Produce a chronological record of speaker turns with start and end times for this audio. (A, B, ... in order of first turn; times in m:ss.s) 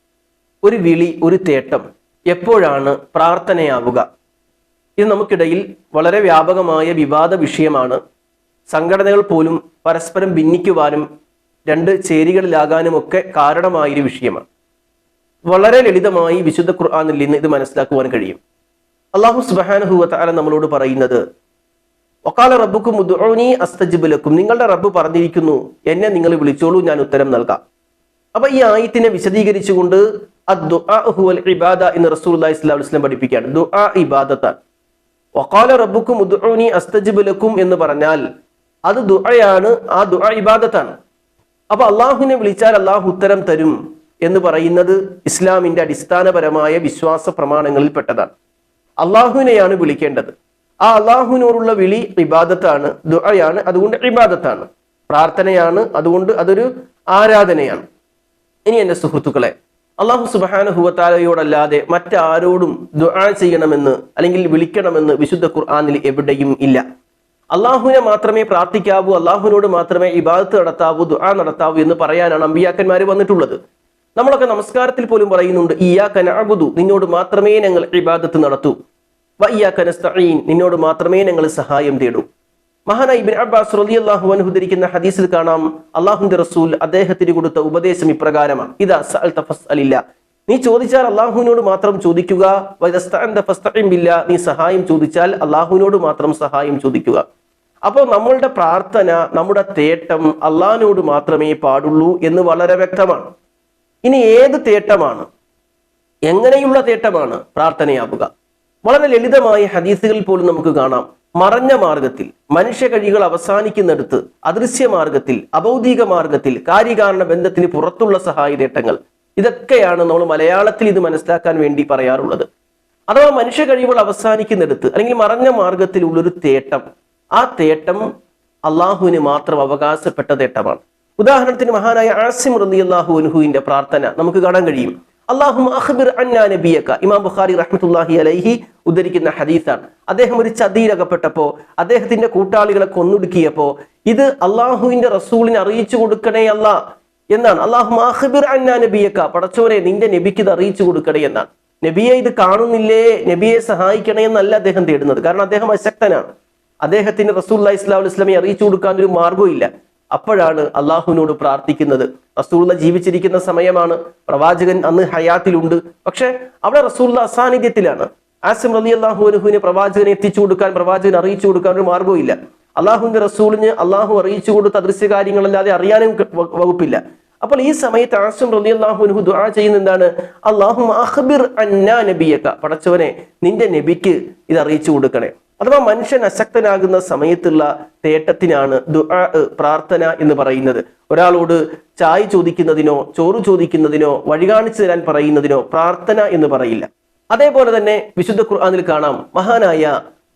0:00.6-0:04.0 A
0:05.0-0:08.0 A
0:08.7-0:11.0 A
0:11.7-0:14.4 A
0:15.5-0:18.4 A
0:19.2-0:21.2 A
0:22.3-0:27.6 A
0:28.4-0:34.6 A
0:35.4-0:38.2 A
0:38.9-0:41.0 A
0:41.7-0:43.7 A
0:44.3-0:48.3 A
0:49.0-0:50.3 A
0:50.9-0:57.8 A
0:58.7-1:06.8 A
1:07.6-1:13.6 A
1:14.2-1:18.8 A
1:19.4-1:22.2 A
1:22.9-1:37.2 A
1:37.9-1:43.3 A
1:44.0-1:45.3 A
1:46.3-1:48.3 A
1:48.8-2:02.5 A
2:03.1-2:06.8 A
2:07.4-2:08.0 A
2:08.7-2:26.8 A
2:27.3-2:36.3 A
2:36.8-3:19.9 A